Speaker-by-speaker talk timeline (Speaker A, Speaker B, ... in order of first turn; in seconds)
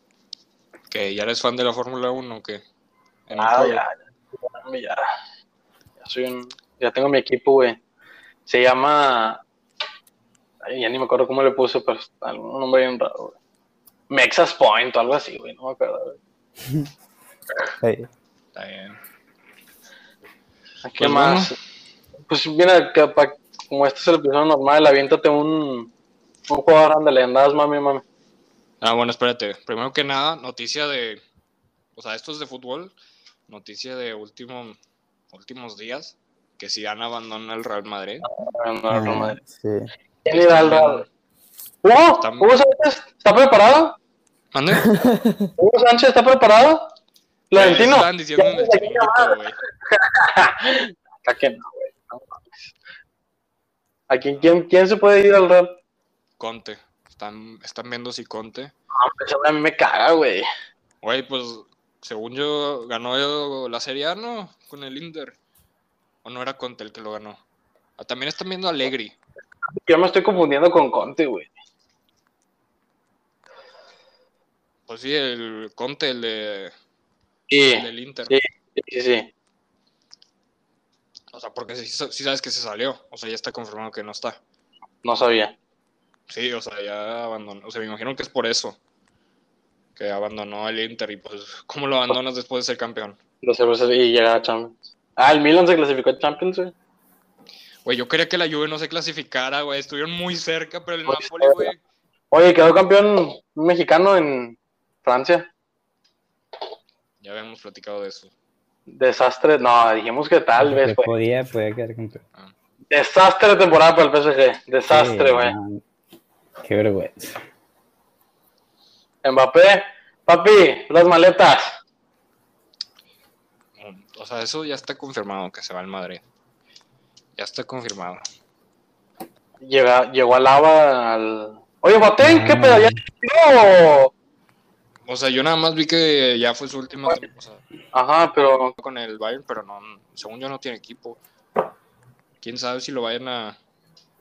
Speaker A: 0.9-2.6, 3.3-3.8, 18.5-19.0, 21.0-21.5, 28.8-31.2, 31.9-32.9, 33.5-34.8, 35.3-38.3, 40.3-41.1, 42.2-42.5, 44.5-45.0, 47.5-49.6, 56.4-58.7, 61.0-65.4, 66.2-67.4, 68.0-69.2, 74.9-76.7, 77.7-78.3, 81.3-84.4, 86.3-88.8, 90.0-93.2, 97.8-101.8, 107.2-108.3, 123.8-126.2, 127.4-128.2, 135.1-137.6, 138.8-141.2, 142.4-143.6
Speaker B: 3.3-5.1, 6.0-7.8, 8.5-9.4, 10.6-13.4, 14.1-16.2, 20.8-21.6, 22.3-25.9, 26.5-28.0, 38.2-39.4, 40.2-41.0, 41.8-44.0, 45.6-46.9, 47.5-49.4, 49.9-52.5, 54.1-55.8, 59.0-60.5, 69.8-71.5, 77.5-79.3, 85.0-85.5, 93.4-96.7, 101.1-101.7, 102.3-105.5, 108.9-111.1, 112.9-115.5, 119.2-121.8, 129.6-134.1, 137.9-138.7
Speaker C: 17.8-18.1, 38.9-39.9, 44.9-45.5, 110.6-112.2, 114.9-115.8, 116.6-117.4, 132.2-133.0